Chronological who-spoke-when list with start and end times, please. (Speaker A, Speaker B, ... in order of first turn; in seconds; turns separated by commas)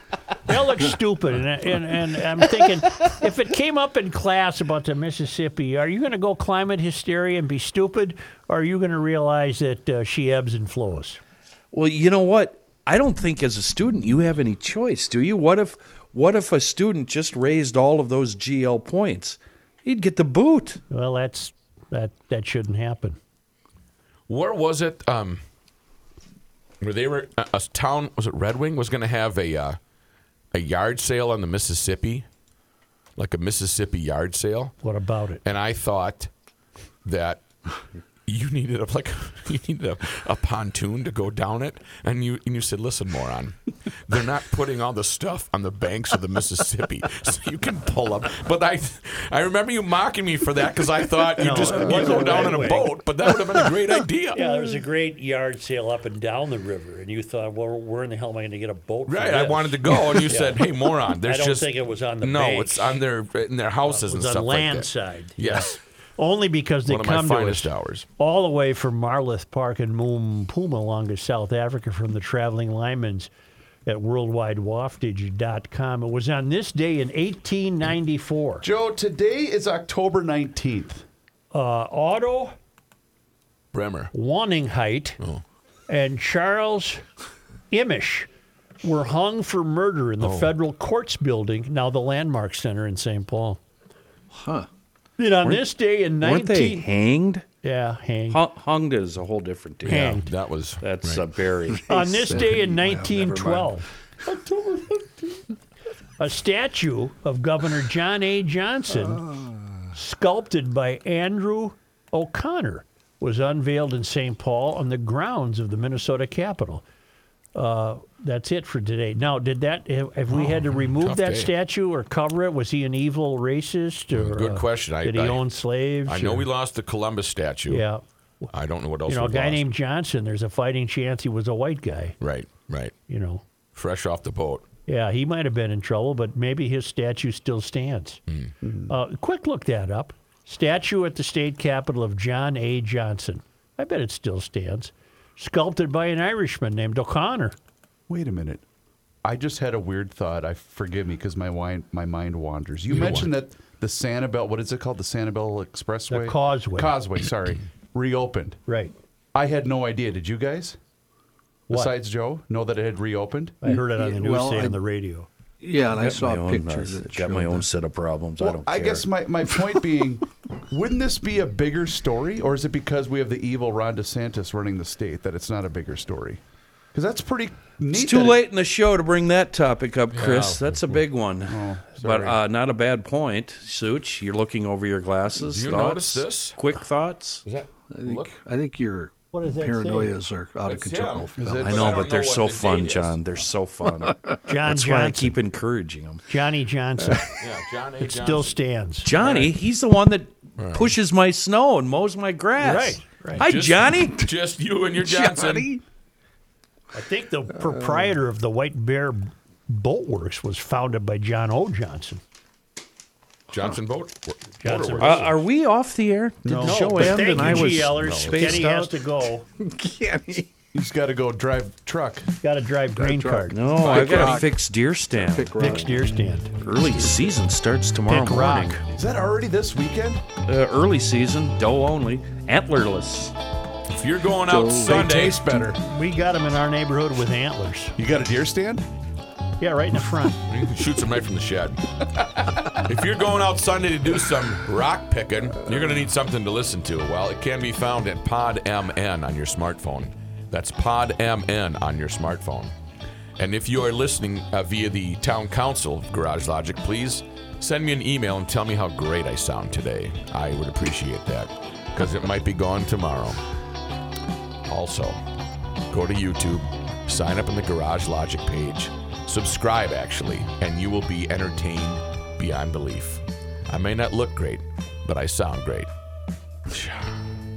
Speaker A: 0.5-11.2, Speaker B: 11.7-20.8, Speaker A: 20.9-23.2, Speaker C: 24.3-25.4, Speaker C: 26.8-29.8, Speaker C: 30.5-32.3, Speaker C: 33.2-34.8, Speaker A: 34.8-35.4, Speaker C: 35.4-36.3, Speaker C: 37.0-37.5, Speaker C: 38.3-54.5, Speaker A: 51.4-52.9, Speaker D: 52.0-52.7, Speaker A: 54.3-60.7, Speaker C: 59.1-65.8, Speaker A: 61.2-63.0, Speaker A: 63.9-73.3, Speaker C: 66.9-68.1, Speaker A: 73.9-78.7, Speaker D: 78.6-81.0, Speaker A: 81.5-82.5, Speaker C: 83.7-84.1, Speaker A: 84.1-85.2, Speaker A: 85.9-87.0, Speaker A: 87.7-88.3, Speaker A: 88.8-93.6, Speaker C: 90.2-90.5, Speaker E: 94.3-94.7, Speaker A: 95.2-96.9, Speaker B: 96.2-97.4, Speaker A: 97.6-98.4, Speaker B: 98.3-100.3, Speaker A: 99.8-100.3, Speaker C: 100.3-101.3, Speaker B: 100.8-101.8, Speaker E: 101.7-103.7, Speaker A: 101.9-103.9, Speaker A: 106.2-109.3, Speaker E: 109.1-109.4, Speaker A: 109.9-116.8, Speaker A: 117.5-126.5, Speaker C: 120.3-121.5, Speaker C: 124.1-125.4, Speaker C: 126.1-127.8, Speaker A: 127.7-128.5, Speaker C: 128.5-129.7, Speaker A: 129.1-132.2, Speaker C: 132.2-132.9, Speaker A: 133.1-133.4, Speaker C: 133.7-134.7, Speaker A: 134.9-138.2, Speaker D: 138.6-138.9, Speaker A: 138.9-147.6, Speaker D: 148.1-148.6, Speaker D: 149.2-158.6, Speaker C: 152.9-153.3, Speaker A: 156.1-157.0, Speaker A: 158.7-158.9, Speaker D: 159.3-160.8, Speaker A: 161.7-161.9, Speaker D: 161.7-163.6, Speaker A: 163.6-165.3, Speaker E: 163.7-164.8, Speaker E: 165.6-167.7, Speaker B: 165.9-169.1, Speaker D: 168.4-176.4, Speaker D: 176.9-178.4, Speaker B: 177.9-187.4, Speaker C: 180.1-180.6, Speaker D: 180.2-182.4, Speaker C: 185.4-186.6, Speaker C: 187.5-188.3, Speaker E: 187.9-192.1, Speaker A: 189.3-190.1, Speaker C: 190.7-193.2, Speaker D: 191.4-192.0, Speaker B: 191.6-196.2, Speaker E: 194.1-194.4, Speaker A: 194.4-195.4, Speaker A: 196.3-197.3, Speaker C: 197.4-198.6, Speaker A: 198.0-199.5, Speaker B: 199.0-204.3, Speaker C: 200.6-200.9, Speaker A: 202.6-203.4, Speaker C: 203.4-205.8, Speaker E: 205.0-205.8, Speaker A: 206.9-212.2, Speaker E: 207.6-208.1, Speaker C: 213.5-215.3, Speaker A: 214.6-215.4, Speaker B: 215.0-218.9, Speaker D: 216.4-217.9, Speaker A: 216.5-219.4, Speaker E: 219.6-220.4, Speaker D: 220.7-222.3, Speaker A: 222.4-223.6, Speaker E: 222.9-224.5, Speaker B: 223.5-225.9, Speaker C: 223.8-224.5, Speaker E: 225.1-226.1, Speaker A: 225.6-226.5, Speaker B: 226.6-228.8, Speaker A: 228.1-228.8, Speaker D: 228.9-230.2, Speaker B: 230.5-233.3, Speaker C: 233.9-235.6, Speaker E: 234.5-235.0, Speaker D: 234.7-235.8, Speaker A: 235.8-237.9, Speaker D: 238.0-238.8, Speaker A: 239.6-240.4, Speaker C: 240.5-252.7, Speaker C: 253.4-263.4, Speaker C: 264.7-265.2, Speaker C: 265.9-275.9, Speaker C: 276.7-277.1